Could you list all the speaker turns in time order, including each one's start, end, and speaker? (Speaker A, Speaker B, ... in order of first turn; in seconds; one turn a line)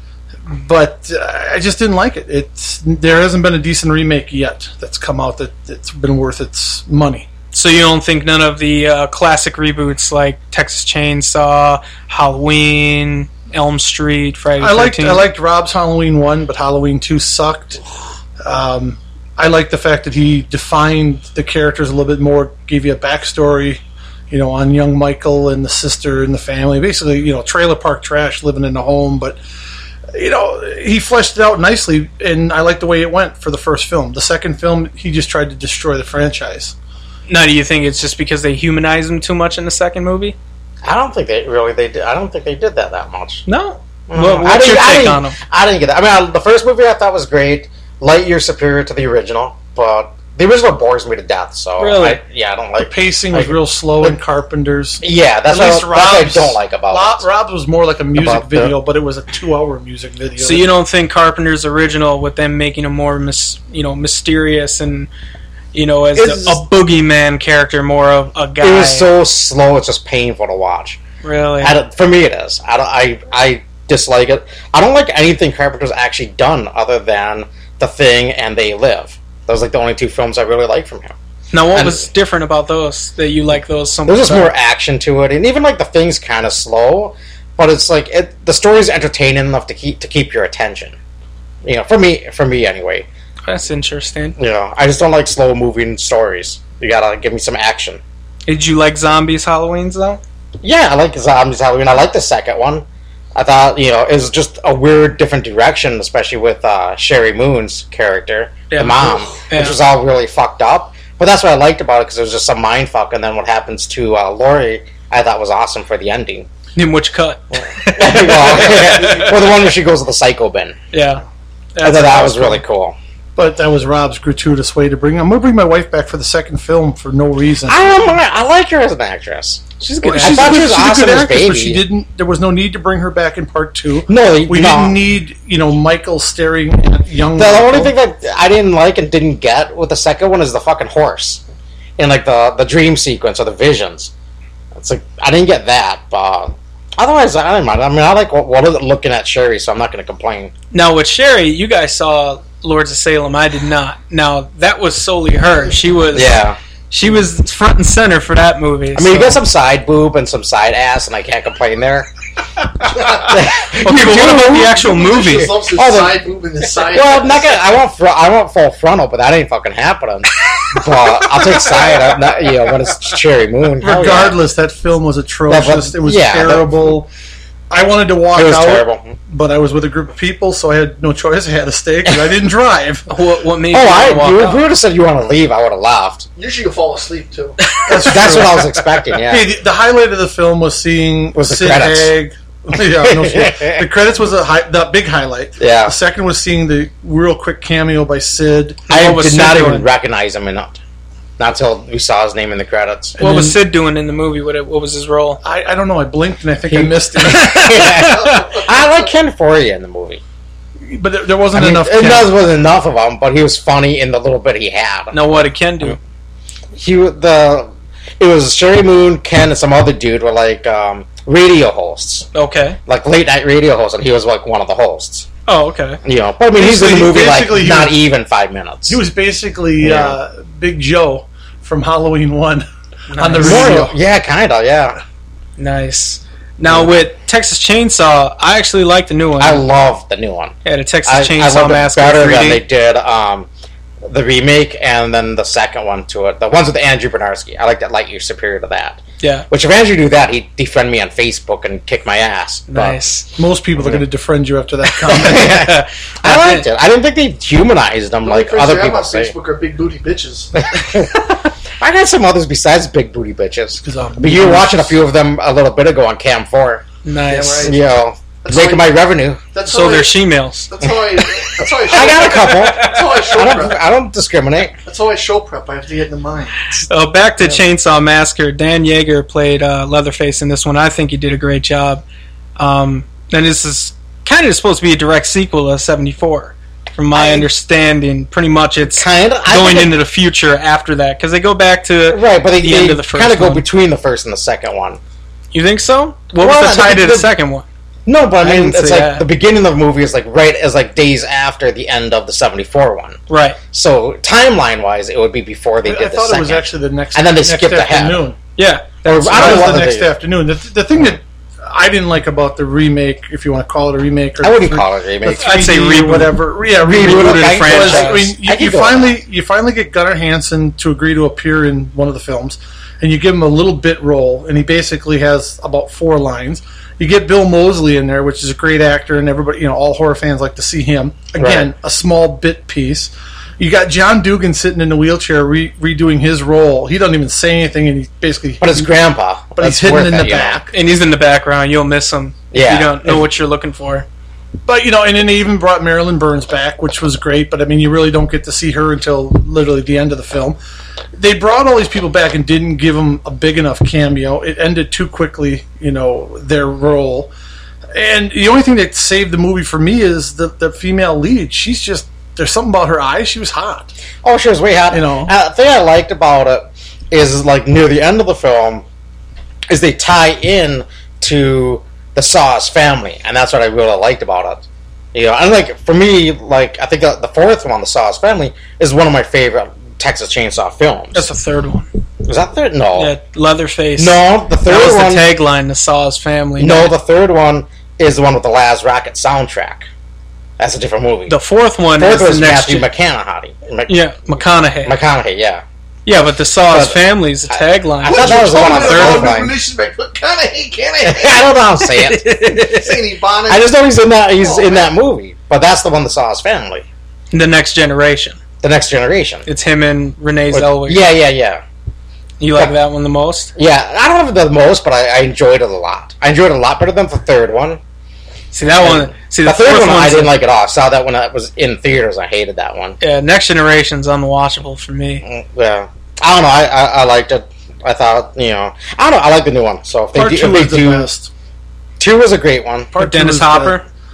Speaker A: 0.5-7.3
Speaker B: 7.5-15.2
Speaker A: 14.6-17.8
Speaker A: 18.4-29.4
Speaker A: 30.1-36.7
Speaker B: 37.3-40.4
Speaker C: 40.8-43.4
Speaker B: 43.5-45.4
Speaker C: 44.1-53.6
Speaker B: 51.8-52.2
Speaker A: 52.8-60.7
Speaker C: 55.0-57.2
Speaker C: 58.1-58.7
Speaker B: 60.4-65.1
Speaker B: 65.7-69.1
Speaker C: 66.1-66.6
Speaker C: 68.6-71.0
Speaker B: 71.2-71.8
Speaker C: 71.6-81.1
Speaker B: 81.5-84.5
Speaker C: 81.7-82.0
Speaker C: 84.1-91.0
Speaker C: 91.6-93.0
Speaker B: 93.4-94.3
Speaker C: 94.4-98.0
Speaker B: 98.5-100.2
Speaker C: 100.6-116.5
Speaker B: 108.7-109.8
Speaker B: 116.7-119.4
Speaker C: 117.6-120.8
Speaker B: 120.9-121.2
Speaker B: 121.7-122.6
Speaker C: 121.8-123.0
Speaker A: 123.3-128.2
Speaker C: 127.7-131.8
Speaker B: 129.8-130.6
Speaker A: 130.0-137.9
Speaker C: 134.1-135.0
Speaker C: 137.4-141.4
Speaker C: 142.0-144.1
Speaker C: 144.7-150.5
Speaker B: 150.7-159.4
Speaker C: 156.1-156.6
Speaker C: 158.9-162.1
Speaker D: 162.9-163.4
Speaker C: 163.0-174.4
Speaker B: 163.7-165.5
Speaker D: 164.7-167.6
Speaker B: 171.6-171.9
Speaker A: 173.8-177.1
Speaker C: 175.5-176.8
Speaker A: 177.7-183.1
Speaker C: 178.3-179.1
Speaker B: 183.1-184.6
Speaker C: 183.7-186.3
Speaker D: 186.4-187.8
Speaker A: 187.8-198.8
Speaker C: 188.0-189.4
Speaker C: 191.3-192.1
Speaker C: 193.0-193.8
Speaker C: 195.6-195.9
Speaker B: 198.9-199.9
Speaker C: 198.9-200.8
Speaker C: 201.4-203.5
Speaker B: 203.2-205.4
Speaker A: 203.2-203.5
Speaker A: 205.4-207.7
Speaker C: 206.7-210.2
Speaker B: 207.3-208.4
Speaker D: 208.0-209.1
Speaker A: 210.9-212.3
Speaker C: 211.5-215.2
Speaker B: 215.1-216.0
Speaker C: 216.7-217.7
Speaker C: 218.2-222.3
Speaker B: 222.3-222.8
Speaker C: 222.8-225.3
Speaker B: 225.5-226.0
Speaker C: 226.0-229.0
Speaker A: 226.5-228.0
Speaker A: 228.9-234.0
Speaker C: 229.8-230.2
Speaker B: 233.1-233.8
Speaker C: 233.4-235.0
Speaker B: 235.6-239.6
Speaker C: 239.4-243.5
Speaker B: 240.6-242.6
Speaker C: 244.1-253.0
Speaker B: 249.2-249.5
Speaker B: 252.7-253.3
Speaker A: 253.4-255.8
Speaker C: 253.8-254.0
Speaker C: 255.0-259.3
Speaker B: 256.2-256.7
Speaker D: 258.2-260.6
Speaker C: 260.6-266.8
Speaker A: 263.8-265.0
Speaker B: 267.0-267.7
Speaker D: 267.2-269.0
Speaker C: 267.6-269.4
Speaker D: 269.5-273.8
Speaker B: 269.6-270.7
Speaker C: 271.8-274.8
Speaker B: 272.1-273.0
Speaker D: 274.8-276.8
Speaker B: 276.8-282.0
Speaker B: 282.6-293.6
Speaker C: 287.1-287.5
Speaker C: 288.8-290.0
Speaker C: 292.1-295.0
Speaker B: 295.5-297.6
Speaker C: 296.4-297.3
Speaker C: 298.1-303.2
Speaker B: 298.4-299.2
Speaker B: 303.3-303.6
Speaker C: 303.7-308.2
Speaker A: 305.8-308.4
Speaker B: 308.6-309.8
Speaker C: 309.0-310.1
Speaker A: 309.2-338.9
Speaker C: 314.4-315.5
Speaker B: 315.4-318.3
Speaker C: 316.7-319.1
Speaker C: 331.4-331.7
Speaker C: 338.6-340.6
Speaker A: 339.6-340.7
Speaker B: 340.7-344.1
Speaker C: 342.5-343.2
Speaker A: 344.6-350.6
Speaker A: 351.1-357.3
Speaker A: 357.9-363.9
Speaker C: 364.2-368.8
Speaker A: 364.9-365.3
Speaker C: 369.7-381.2
Speaker B: 381.1-381.9
Speaker C: 382.2-383.1
Speaker B: 382.9-386.9
Speaker C: 384.0-385.3
Speaker C: 386.6-389.9
Speaker C: 390.6-391.4
Speaker B: 391.3-392.9
Speaker C: 392.0-393.9
Speaker B: 393.9-394.9
Speaker C: 394.8-395.6
Speaker B: 396.1-399.3
Speaker C: 396.7-397.0
Speaker D: 398.0-401.5
Speaker C: 398.0-399.5
Speaker C: 401.0-402.4
Speaker B: 401.8-403.0
Speaker D: 402.5-403.7
Speaker C: 403.5-406.9
Speaker D: 404.3-404.9
Speaker B: 407.3-408.4
Speaker C: 408.6-409.4
Speaker B: 409.4-411.1
Speaker C: 410.5-411.6
Speaker B: 412.4-413.5
Speaker C: 413.6-417.8
Speaker B: 418.5-420.3
Speaker C: 418.8-423.0
Speaker B: 423.0-425.2
Speaker C: 425.2-431.1
Speaker A: 430.1-431.3
Speaker C: 432.0-432.9
Speaker A: 432.9-433.8
Speaker B: 432.9-433.9